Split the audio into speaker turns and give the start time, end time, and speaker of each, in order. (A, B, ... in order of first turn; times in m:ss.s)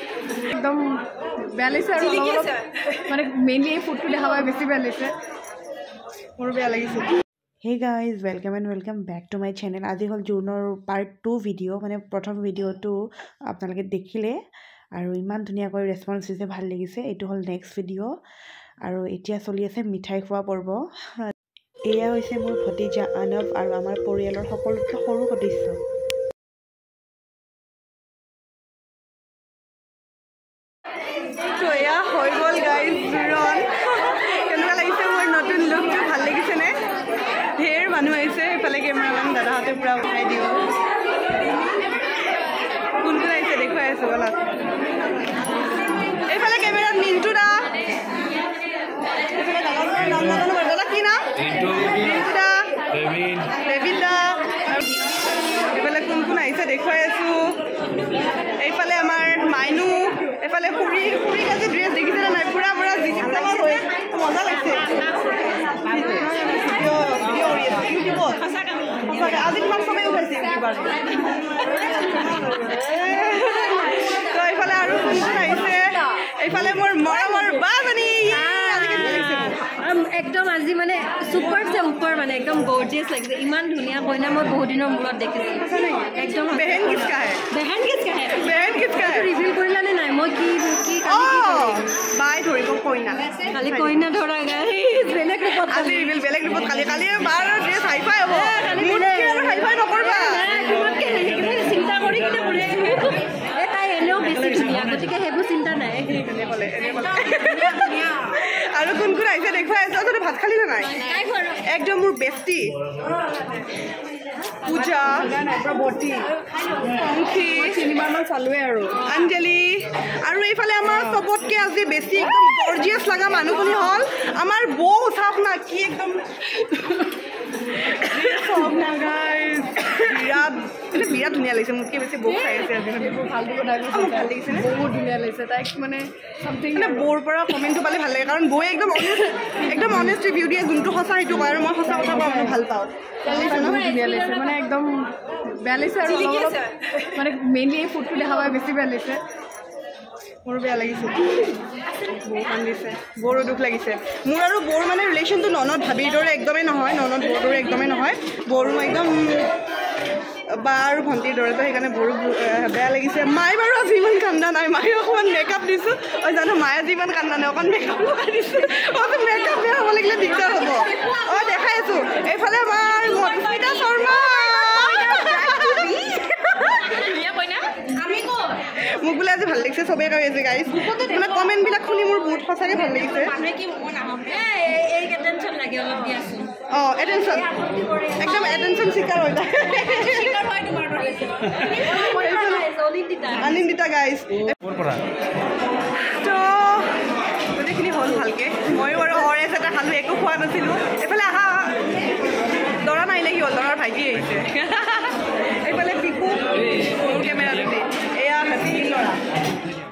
0:00.5-0:01.0 A
0:01.5-0:05.1 A
0:06.4-0:07.2 B
0:07.6-0:13.0 C
0:13.5-0:14.4 C
0:15.0-0:18.1 C
0:18.8-0:21.3 C
0:21.9-0:25.8 C
0:31.6-0:36.8 B
0:37.6-0:40.6 B
0:43.0-0:44.4 B
0:46.3-0:47.7 B
0:49.3-0:52.7 B
0:53.5-0:54.8 B
0:55.7-0:57.6 B
0:58.6-1:04.9 B
1:05.9-1:08.4 B
1:09.0-1:11.1 B
1:12.1-1:19.6 B
1:18.3-1:31.8 D
1:25.6-1:27.4 B
1:28.4-1:29.3 B
1:31.0-1:33.9 B
1:33.5-1:36.1 D
1:35.7-1:40.4 B
1:38.3-1:46.2 D
1:46.1-1:50.9 B
1:51.0-1:51.6 D
1:51.7-1:52.8 B
1:54.6-1:55.5 B
1:55.4-1:56.2 A
1:56.8-1:57.8 B
1:57.6-1:59.0 A
1:59.0-2:06.6 B
2:07.9-2:13.2 B
2:12.2-2:17.0 A
2:13.8-2:14.7 B
2:16.7-2:23.9 B
2:21.8-2:22.5 A
2:23.2-2:25.1 A
2:25.6-2:29.2 A
2:30.4-2:31.6 B
2:32.1-2:39.5 B
2:40.5-2:56.0 B
2:55.0-2:57.0 D
2:59.0-3:03.4 B
3:04.2-3:06.5 D
3:06.7-3:07.5 B
3:07.3-3:08.7 D
3:08.2-3:10.5 B
3:11.6-3:13.6 D
3:11.6-3:12.6 B
3:13.4-3:14.9 B
3:16.1-3:16.9 B
3:17.5-3:21.7 B
3:22.8-3:29.2 B